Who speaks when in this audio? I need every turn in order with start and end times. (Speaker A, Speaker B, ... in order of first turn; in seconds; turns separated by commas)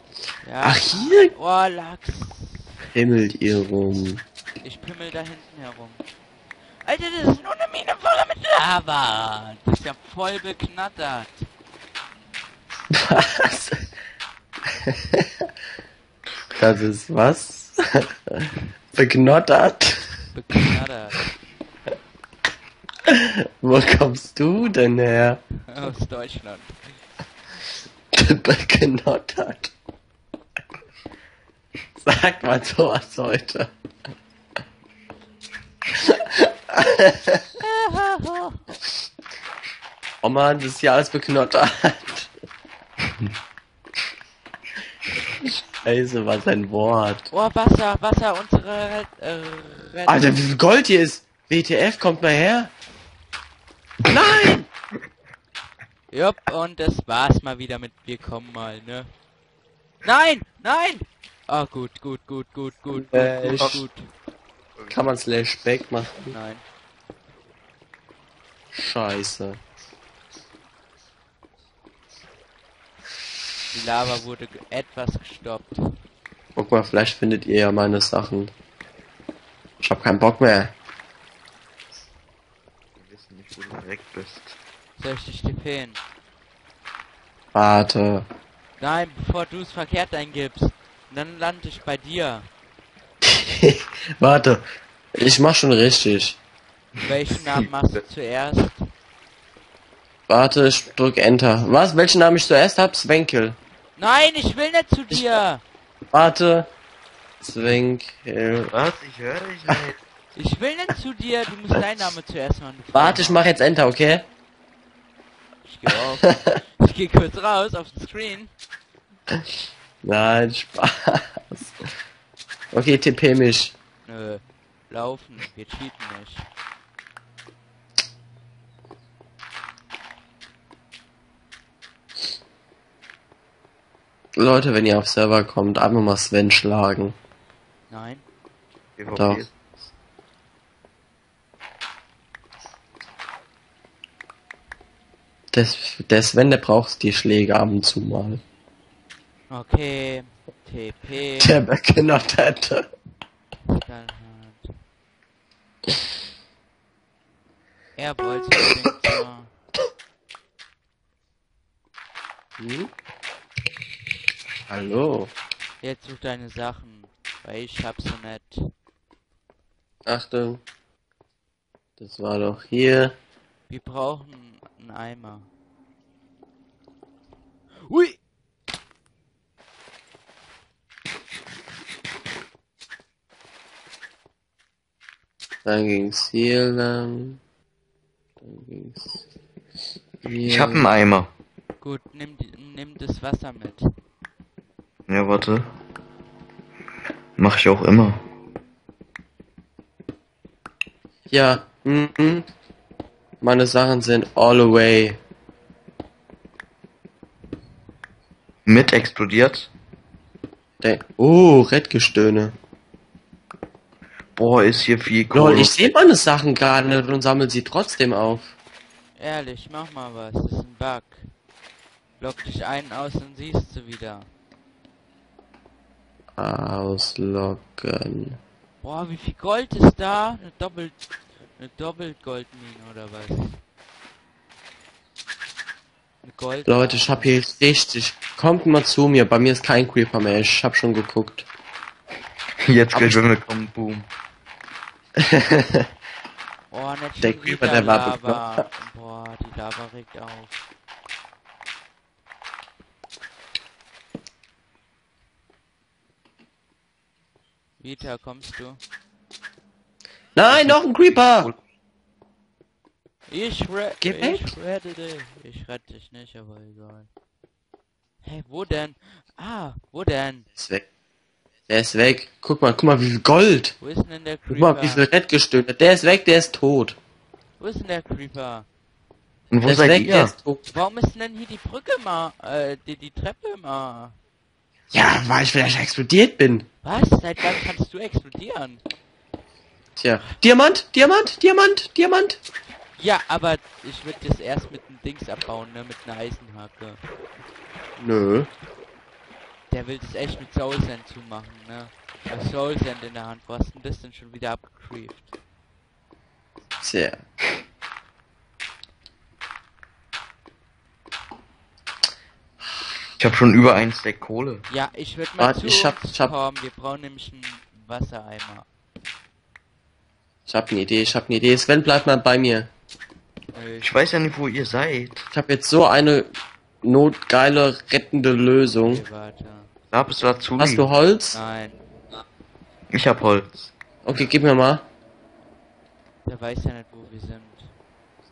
Speaker A: 0.4-2.7, Speaker B: 0.6-1.3, Speaker B: 2.9-4.2, Speaker A: 4.6-6.0, Speaker A: 6.8-11.5, Speaker B: 12.9-13.9, Speaker B: 14.9-15.3, Speaker B: 16.6-20.2, Speaker A: 20.3-21.2, Speaker B: 23.1-25.4, Speaker A: 25.7-26.8, Speaker B: 28.1-29.7, Speaker B: 32.0-33.7, Speaker B: 36.0-37.4, Speaker A: 37.6-38.6, Speaker B: 40.2-42.3, Speaker B: 45.8-47.3, Speaker A: 47.3-50.4, Speaker B: 50.1-52.7, Speaker B: 54.1-54.7, Speaker C: 54.1-54.5, Speaker A: 56.1-59.1, Speaker A: 60.0-64.1, Speaker B: 62.9-63.7, Speaker C: 64.8-65.0, Speaker B: 64.9-66.3, Speaker A: 66.3-66.6, Speaker B: 68.7-69.6, Speaker A: 73.7-75.8, Speaker B: 76.6-78.5, Speaker B: 79.8-80.7, Speaker C: 83.0-84.6, Speaker A: 85.0-86.0, Speaker B: 87.5-88.2, Speaker A: 88.8-92.5, Speaker B: 93.2-94.6, Speaker B: 95.2-96.4, Speaker A: 97.0-98.8, Speaker B: 100.3-103.6, Speaker A: 104.0-105.6, Speaker B: 106.1-106.7, Speaker B: 107.4-108.7, Speaker C: 108.7-110.0, Speaker A: 110.3-113.5, Speaker B: 112.9-114.2, Speaker A: 115.6-118.5, Speaker B: 120.0-121.7, Speaker B: 122.7-123.8, Speaker A: 124.0-126.5, Speaker B: 134.4-137.2, Speaker A: 137.9-138.2, Speaker C: 139.0-139.5, Speaker B: 139.2-139.4, Speaker B: 145.5-148.4, Speaker A: 149.5-151.6, Speaker B: 151.4-152.9, Speaker A: 153.7-154.7, Speaker A: 158.0-159.5, Speaker B: 162.6-162.9, Speaker B: 164.7-165.3, Speaker A: 165.8-168.6, Speaker B: 170.1-170.6, Speaker B: 172.0-173.1, Speaker A: 173.7-175.5, Speaker A: 177.8-178.2, Speaker B: 185.7-187.4, Speaker B: 188.4-189.2, Speaker B: 190.2-190.9, Speaker C: 190.4-191.3, Speaker A: 191.8-193.8, Speaker C: 195.1-195.7, Speaker C: 197.4-198.2, Speaker B: 201.3-202.4, Speaker B: 203.4-205.2, Speaker C: 208.7-209.7, Speaker B: 210.8-212.5, Speaker C: 214.4-215.8, Speaker B: 215.3-218.5, Speaker A: 219.2-221.3, Speaker A: 222.2-224.3, Speaker B: 226.4-228.4, Speaker A: 228.8-230.9, Speaker A: 231.6-233.6, Speaker A: 236.2-237.4, Speaker B: 236.7-241.5, Speaker C: 242.7-244.1, Speaker B: 242.9-243.2, Speaker B: 245.3-245.9, Speaker A: 246.7-250.6, Speaker B: 247.2-248.7, Speaker A: 257.8-258.8, Speaker B: 260.4-261.5, Speaker A: 260.5-260.8, Speaker C: 261.2-261.6, Speaker A: 263.3-267.1, Speaker B: 264.0-264.5, Speaker A: 268.2-270.5, Speaker B: 270.6-270.9, Speaker B: 271.7-273.8, Speaker A: 273.8-275.1, Speaker B: 274.5-277.0, Speaker A: 277.6-278.7, Speaker C: 279.5-280.3, Speaker B: 279.7-280.6, Speaker A: 280.7-284.2, Speaker B: 284.9-286.7, Speaker A: 286.8-288.8, Speaker B: 290.0-292.4, Speaker A: 293.0-297.0, Speaker B: 298.0-298.5, Speaker A: 299.7-305.3, Speaker B: 306.8-307.2, Speaker C: 313.2-314.6, Speaker A: 314.7-318.7, Speaker B: 315.4-316.3, Speaker B: 320.5-322.7, Speaker A: 323.5-323.9, Speaker C: 323.8-325.2, Speaker B: 325.3-326.3, Speaker B: 326.8-329.0, Speaker A: 328.8-329.7, Speaker C: 329.9-330.9, Speaker B: 330.6-331.4, Speaker A: 331.3-331.8, Speaker C: 332.9-333.7, Speaker B: 334.1-334.8, Speaker A: 336.2-337.7